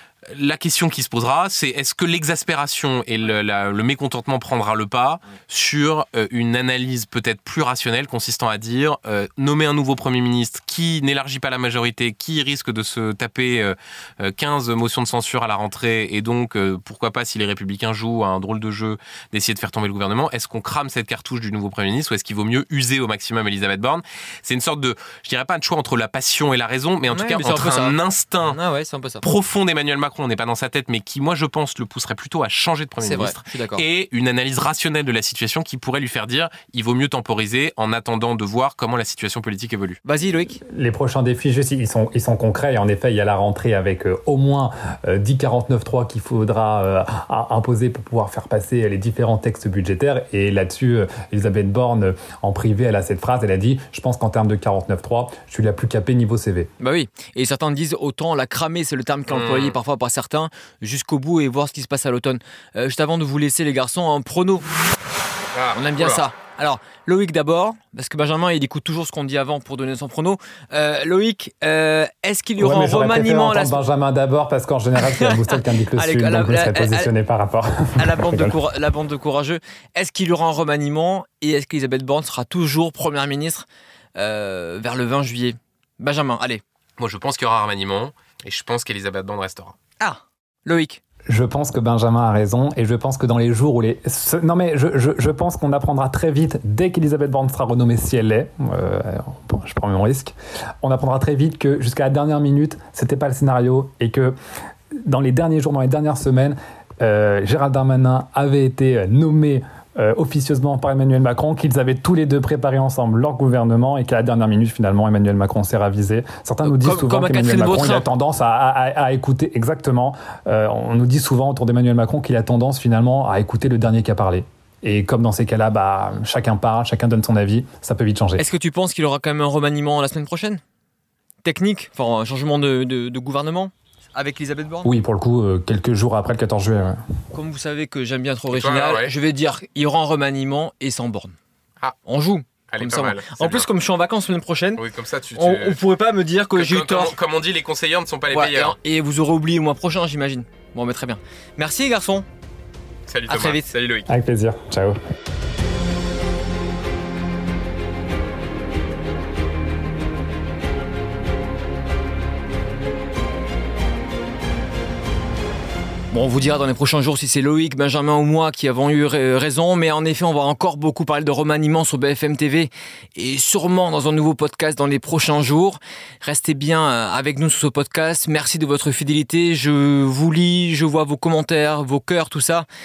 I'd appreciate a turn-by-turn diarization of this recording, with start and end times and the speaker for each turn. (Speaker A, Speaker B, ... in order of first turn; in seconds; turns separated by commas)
Speaker A: 0.3-28.6, Speaker B: 27.1-29.2, Speaker A: 29.2-40.0, Speaker B: 33.0-33.8, Speaker B: 40.0-40.6, Speaker C: 40.6-56.7, Speaker B: 56.8-64.6, Speaker A: 59.3-59.8, Speaker A: 65.5-66.2, Speaker B: 65.7-73.8, Speaker C: 72.6-78.6, Speaker B: 75.0-77.1, Speaker B: 78.0-83.7, Speaker B: 84.2-86.6, Speaker A: 87.0-89.8, Speaker B: 90.0-91.0, Speaker C: 91.3-104.3, Speaker C: 105.0-128.4, Speaker B: 116.6-118.1, Speaker B: 128.4-130.6, Speaker B: 131.4-134.9, Speaker C: 134.8-137.0, Speaker B: 137.3-141.3, Speaker A: 138.5-139.1, Speaker B: 142.1-144.8, Speaker A: 142.7-143.7, Speaker A: 144.8-145.8, Speaker B: 145.3-147.2, Speaker A: 146.5-148.8, Speaker B: 148.3-152.2, Speaker A: 153.1-154.1, Speaker B: 153.3-153.7, Speaker C: 154.1-154.9, Speaker B: 166.1-182.7